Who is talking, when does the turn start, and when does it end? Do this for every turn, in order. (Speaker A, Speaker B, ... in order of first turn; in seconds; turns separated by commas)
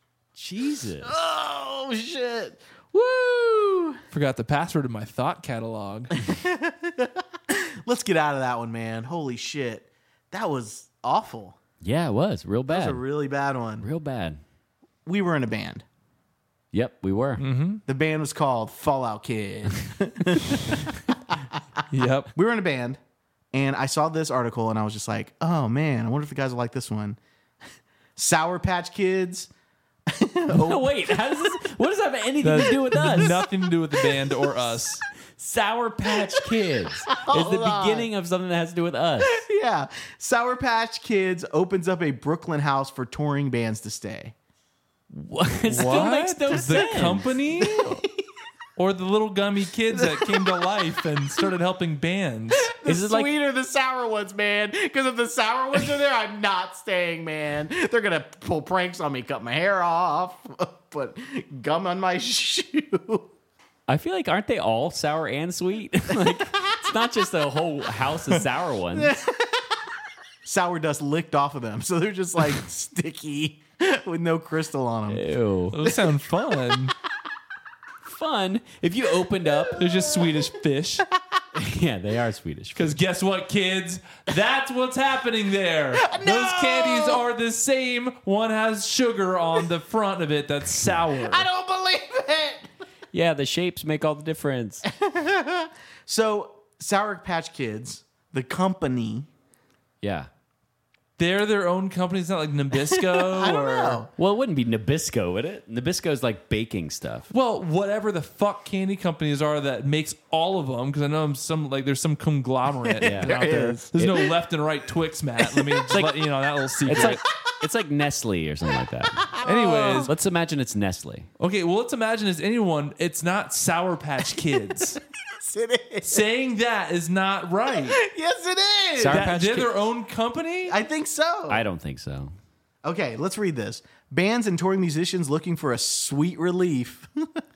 Speaker A: 0.3-1.1, Speaker B: 1.0-4.0, Speaker C: 4.1-6.2, Speaker B: 6.2-11.6, Speaker A: 11.8-13.0, Speaker B: 12.7-13.9, Speaker A: 13.8-14.4, Speaker B: 15.1-15.8, Speaker A: 16.7-17.4, Speaker C: 17.4-17.8, Speaker B: 17.9-23.0, Speaker C: 21.9-22.3, Speaker B: 23.5-27.2, Speaker B: 28.1-29.5, Speaker B: 30.1-31.1, Speaker A: 30.5-33.4, Speaker C: 32.4-35.0, Speaker B: 34.0-34.7, Speaker A: 35.4-39.4, Speaker B: 37.1-38.1, Speaker B: 39.2-44.3, Speaker A: 45.1-47.3, Speaker C: 45.6-48.0, Speaker B: 47.5-48.2, Speaker C: 48.8-52.7, Speaker B: 49.9-50.7, Speaker B: 52.6-63.3, Speaker A: 52.8-53.3, Speaker A: 63.9-69.1, Speaker B: 68.9-69.8, Speaker B: 70.4-75.2, Speaker A: 75.1-75.8, Speaker C: 75.7-76.9, Speaker B: 75.8-76.1, Speaker A: 78.0-79.8, Speaker B: 79.7-80.4, Speaker C: 79.7-81.0, Speaker A: 81.5-83.0, Speaker C: 82.8-91.5, Speaker B: 86.0-87.2, Speaker B: 91.2-92.7, Speaker A: 93.1-94.8, Speaker B: 94.9-99.3, Speaker A: 100.0-100.3, Speaker C: 101.2-104.0, Speaker B: 102.9-104.1, Speaker A: 104.2-107.3, Speaker C: 107.3-117.2, Speaker B: 112.8-113.9, Speaker A: 113.0-114.2, Speaker B: 115.4-115.9, Speaker A: 116.8-119.3, Speaker B: 119.2-120.1, Speaker C: 119.4-120.1, Speaker A: 120.0-121.3, Speaker C: 121.4-125.0, Speaker B: 125.3-126.2, Speaker C: 126.0-128.0, Speaker B: 127.7-129.3, Speaker A: 129.0-129.7, Speaker C: 129.0-130.8, Speaker B: 130.7-131.6, Speaker A: 131.5-132.3, Speaker B: 132.8-137.4